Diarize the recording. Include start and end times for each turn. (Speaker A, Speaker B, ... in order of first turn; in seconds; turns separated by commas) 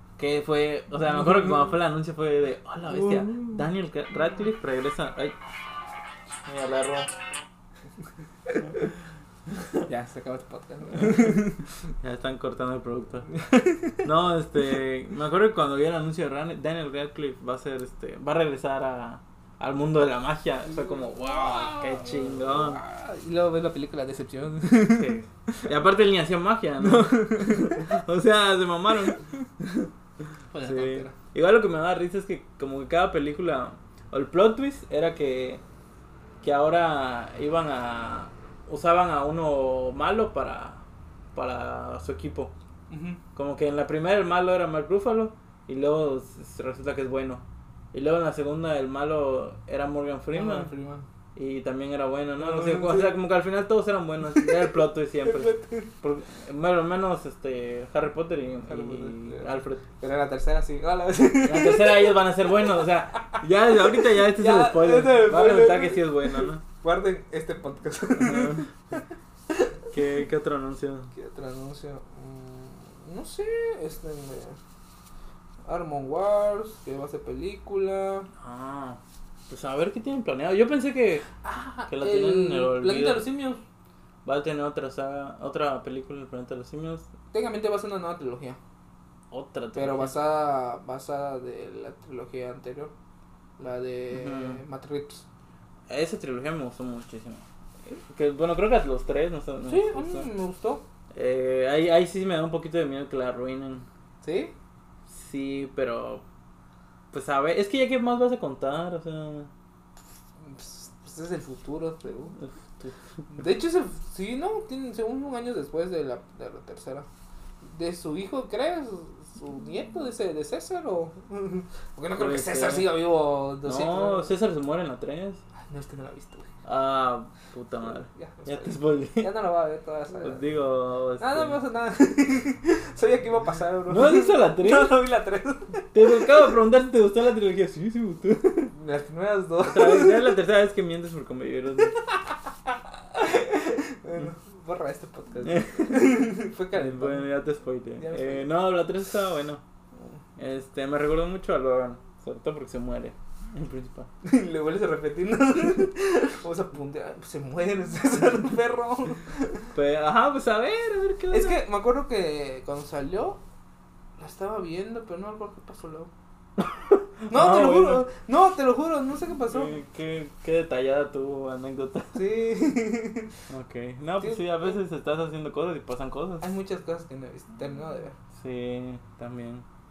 Speaker A: 0.2-5.4, Speaker B: 3.2-3.5, Speaker A: 6.5-7.1, Speaker B: 9.8-11.6, Speaker A: 11.0-11.4, Speaker A: 12.0-13.3, Speaker B: 13.3-14.0, Speaker A: 14.0-22.8, Speaker B: 20.7-25.7, Speaker A: 24.9-29.9, Speaker B: 26.8-27.9, Speaker B: 30.5-31.1, Speaker A: 30.6-35.6, Speaker A: 36.4-40.8, Speaker A: 41.4-42.5, Speaker B: 42.9-43.2, Speaker A: 43.4-50.7, Speaker B: 50.3-51.1, Speaker A: 51.4-59.8, Speaker B: 52.4-53.2, Speaker B: 54.3-55.9, Speaker B: 58.7-62.2, Speaker A: 61.4-66.6, Speaker B: 63.2-69.8, Speaker A: 68.2-68.7, Speaker A: 69.9-71.1, Speaker B: 71.1-74.6, Speaker B: 75.7-78.3, Speaker A: 78.4-81.3, Speaker B: 81.4-83.6, Speaker A: 81.9-83.3, Speaker A: 84.2-87.1, Speaker B: 87.3-88.6, Speaker A: 89.3-90.2, Speaker B: 89.8-92.9, Speaker B: 93.6-95.2, Speaker A: 94.1-94.6, Speaker A: 95.9-100.3, Speaker B: 99.7-100.8, Speaker A: 101.1-103.9, Speaker B: 104.2-104.5, Speaker A: 105.1-106.2, Speaker A: 107.1-109.5, Speaker B: 110.5-112.4, Speaker A: 112.4-113.0, Speaker B: 113.3-117.1, Speaker B: 117.6-124.3, Speaker A: 122.1-123.0, Speaker A: 123.7-125.4, Speaker B: 125.7-126.5, Speaker A: 126.7-129.3, Speaker B: 128.1-130.4, Speaker A: 130.2-131.6, Speaker B: 131.2-136.2, Speaker A: 133.9-134.9, Speaker A: 135.9-138.7, Speaker B: 138.7-140.4, Speaker A: 139.6-141.9, Speaker B: 142.0-147.3, Speaker A: 145.4-146.1, Speaker A: 146.7-149.6, Speaker B: 148.0-148.5, Speaker A: 150.4-154.1, Speaker B: 154.2-159.7, Speaker A: 159.7-161.6, Speaker B: 161.3-163.4, Speaker B: 164.2-166.1, Speaker A: 166.6-168.1, Speaker B: 167.3-169.8, Speaker A: 169.5-172.2, Speaker B: 172.1-173.4, Speaker A: 173.5-176.5, Speaker B: 174.2-174.8, Speaker B: 176.4-178.2, Speaker A: 178.3-179.7